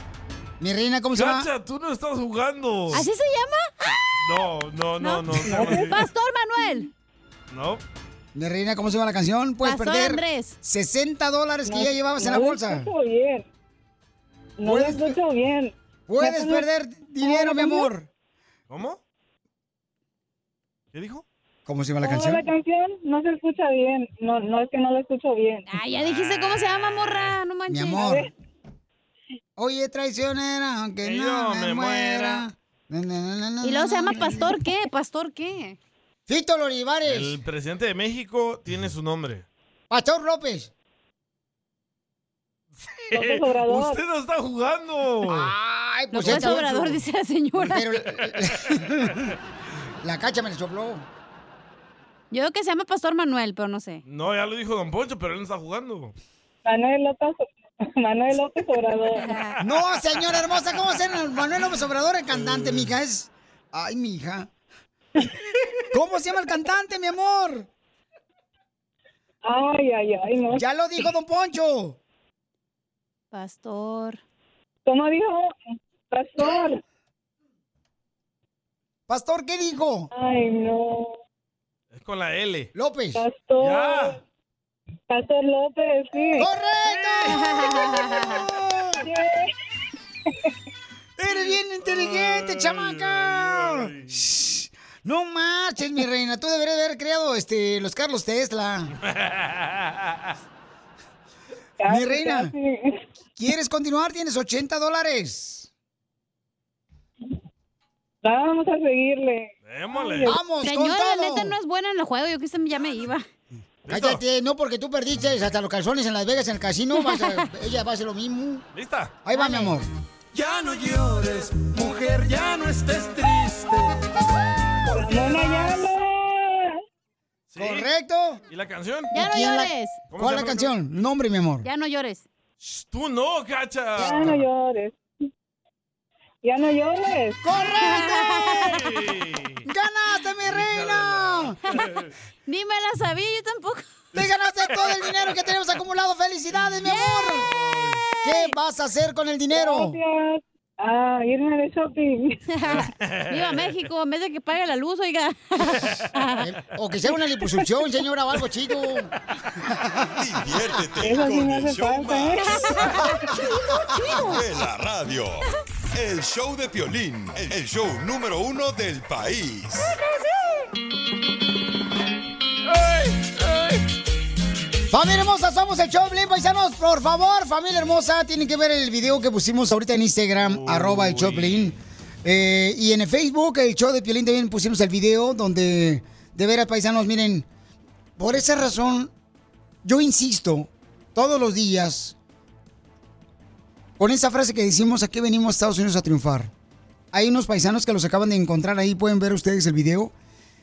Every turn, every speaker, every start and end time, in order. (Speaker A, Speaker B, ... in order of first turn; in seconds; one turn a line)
Speaker A: 0.6-1.5
Speaker B: 1.1-3.1
Speaker C: 2.9-4.0
Speaker B: 4.2-6.0
Speaker C: 5.0-6.9
Speaker D: 5.5-5.9
Speaker B: 7.5-7.8
Speaker A: 8.3-12.9
Speaker C: 9.6-10.6
Speaker D: 11.7-13.4
Speaker D: 14.6-16.7
Speaker A: 14.7-15.2
Speaker A: 16.1-18.1
Speaker D: 17.2-17.9
Speaker B: 18.7-19.0
Speaker B: 20.9-21.2
Speaker A: 21.7-22.4
Speaker D: 22.0-25.7
Speaker C: 25.7-28.1
Speaker B: 26.0-27.3
Speaker A: 27.7-28.2
Speaker D: 28.0-28.3
Speaker A: 29.6-34.6
Speaker B: 31.0-32.5
Speaker C: 33.6-35.8
Speaker A: 36.3-37.4
Speaker B: 37.1-39.5
Speaker A: 39.9-40.7
Speaker B: 42.9-45.5
Speaker D: 43.1-44.0
Speaker A: 45.2-47.0
Speaker C: 46.1-47.9
Speaker B: 46.2-46.6
Speaker A: 47.6-49.3
Speaker A: 50.0-51.1
Speaker C: 52.3-54.0
Speaker B: 54.0-56.1
Speaker D: 56.7-59.3
Speaker C: 59.2-59.6
Speaker A: 59.6-64.5
Speaker B: 62.3-62.9
Speaker A: 65.9-67.7
Speaker D: 69.5-70.6
Speaker A: 70.5-72.0
Speaker C: 73.3-74.2
Speaker D: 74.9-75.5
Speaker D: 76.1-76.8
Speaker A: 79.1-80.1
Speaker D: 80.1-81.2
Speaker B: 81.9-82.7
Speaker A: 82.7-83.2
Speaker D: 83.2-84.2
Speaker B: 83.6-84.2
Speaker D: 85.1-86.5
Speaker A: 86.4-89.0
Speaker B: 86.9-87.3
Speaker C: 87.3-88.4
Speaker D: 89.0-89.5
Speaker A: 91.2-98.9
Speaker B: 91.3-94.1
Speaker B: 99.0-100.3
Speaker D: 101.8-103.0
Speaker A: 101.9-102.5
Speaker A: 103.4-105.7
Speaker D: 108.2-110.4
Speaker B: 109.7-110.4
Speaker A: 110.2-111.5
Speaker C: 110.6-113.2
Speaker B: 113.9-114.2
Speaker A: 113.9-118.7
Speaker C: 117.0-117.4
Speaker B: 118.7-119.2
Speaker A: 119.2-119.9
Speaker C: 119.3-119.7
Speaker E: 120.4-123.6
Speaker D: 124.9-126.8
Speaker B: 127.5-127.9
Speaker A: 127.6-128.4
Speaker B: 128.5-129.1
Speaker C: 129.1-130.0
Speaker A: 129.2-131.7
Speaker B: 130.1-130.7
Speaker C: 131.6-132.3
Speaker B: 132.6-134.4
Speaker D: 134.0-134.9
Speaker D: 136.4-137.4
Speaker A: 137.4-138.8
Speaker C: 137.8-138.7
Speaker B: 138.7-139.6
Speaker A: 139.7-141.6
Speaker B: 140.4-142.1
Speaker C: 142.4-143.9
Speaker A: 144.1-147.5
Speaker B: 144.7-145.2
Speaker C: 146.8-147.4
Speaker B: 147.5-148.0
Speaker C: 148.1-148.6
Speaker A: 148.2-149.9
Speaker D: 149.5-152.4
Speaker C: 152.5-156.4
Speaker B: 152.7-153.7
Speaker A: 156.4-159.1
Speaker F: 160.2-162.4
Speaker D: 161.0-162.5
Speaker C: 162.5-163.1
Speaker C: 163.8-164.4
Speaker F: 164.2-169.9
Speaker B: 172.8-173.4
Speaker A: 174.9-187.4
Speaker B: 180.4-181.8
Speaker A: 188.2-189.1
Speaker A: 189.8-192.2
Speaker A: 194.0-196.5
Speaker A: 197.1-200.1